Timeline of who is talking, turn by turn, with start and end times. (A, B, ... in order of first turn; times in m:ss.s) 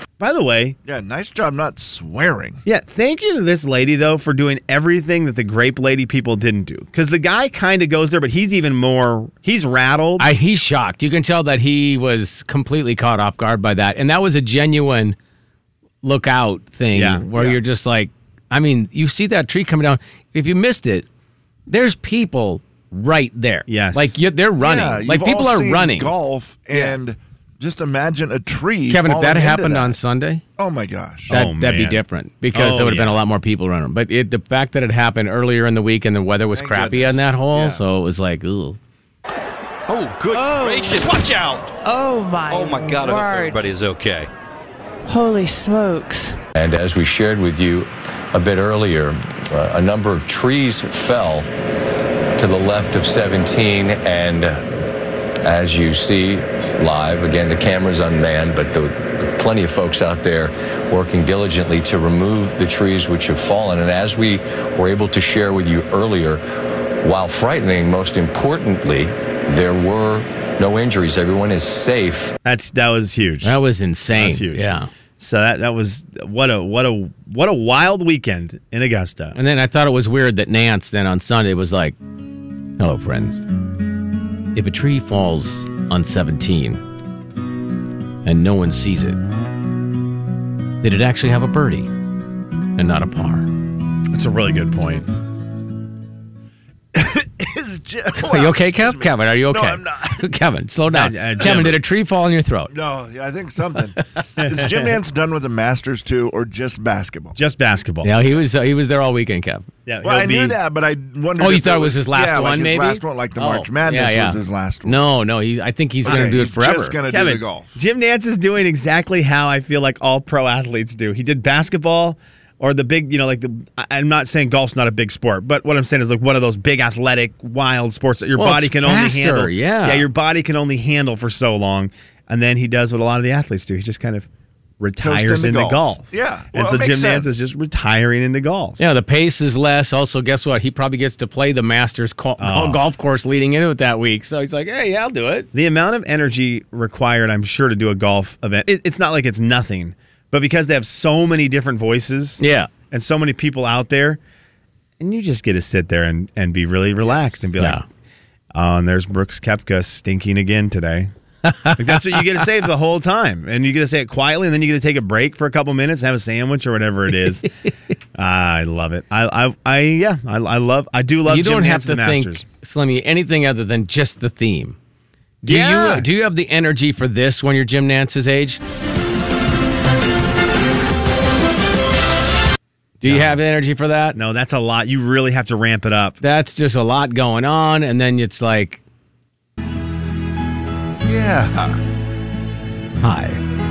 0:00.2-0:00.8 A
0:00.8-0:02.6 B
0:02.6-0:10.3 A
0:10.2-0:15.2 C
0:16.0-0:21.0 C
0:16.9-0:17.2 A
0:17.3-0:17.6 B
0:21.7-0:26.1 C
0:23.7-0:24.2 A
0:24.6-0:30.0 B
0:28.9-0:30.4 C
0:30.6-0:31.3 B
0:31.3-0:33.2 A
0:31.3-0:38.8 C
0:36.5-0:37.8 B
0:39.9-0:41.7 D
0:40.3-0:41.1 E
0:41.8-0:43.7 E
0:42.5-0:44.3 D
0:45.0-0:46.4 E
0:46.6-0:51.5 F
0:52.4-0:54.7 F
0:55.4-1:06.4 F
1:07.0-1:12.3 F
1:12.4-1:13.6 A
1:13.4-1:14.9 C
1:14.1-1:19.4 A
1:19.3-1:22.0 C
1:22.8-1:23.4 C
1:24.5-1:26.8 C
1:28.2-1:29.2 C
1:30.8-1:31.9 C
1:32.8-1:33.5 C
1:34.1-1:35.1 A
1:36.9-1:40.2 B
1:38.1-1:42.7 C
1:40.9-1:41.8 A
1:41.4-1:41.7 B
1:42.7-1:47.4 B
1:44.4-1:44.9 A
1:47.4-1:48.1 A
1:48.0-1:49.7 C
1:49.8-1:50.6 A
1:50.0-1:55.0 B
1:51.4-1:57.0 C
1:56.0-1:57.7 B
1:56.0-1:56.4 A
1:57.1-2:14.3 A
2:08.4-2:10.0 C
2:14.8-2:18.8 A
2:15.0-2:17.3 B
2:18.8-2:25.5 C
2:22.4-2:22.8 A
2:25.5-2:34.2 A
2:32.4-2:32.7 C
2:35.0-2:37.8 A
2:37.6-2:37.8 C
2:38.5-2:41.1 A
2:41.4-2:41.8 C
2:41.7-2:47.5 A
2:48.1-2:52.4 A
2:51.2-2:54.8 C
2:55.4-2:56.0 A
2:55.4-2:58.6 C
3:03.0-3:04.2 C
3:03.0-3:03.4 A
3:04.1-3:06.2 A
3:06.2-3:08.8 C
3:11.0-3:11.8 B
3:13.0-3:13.4 C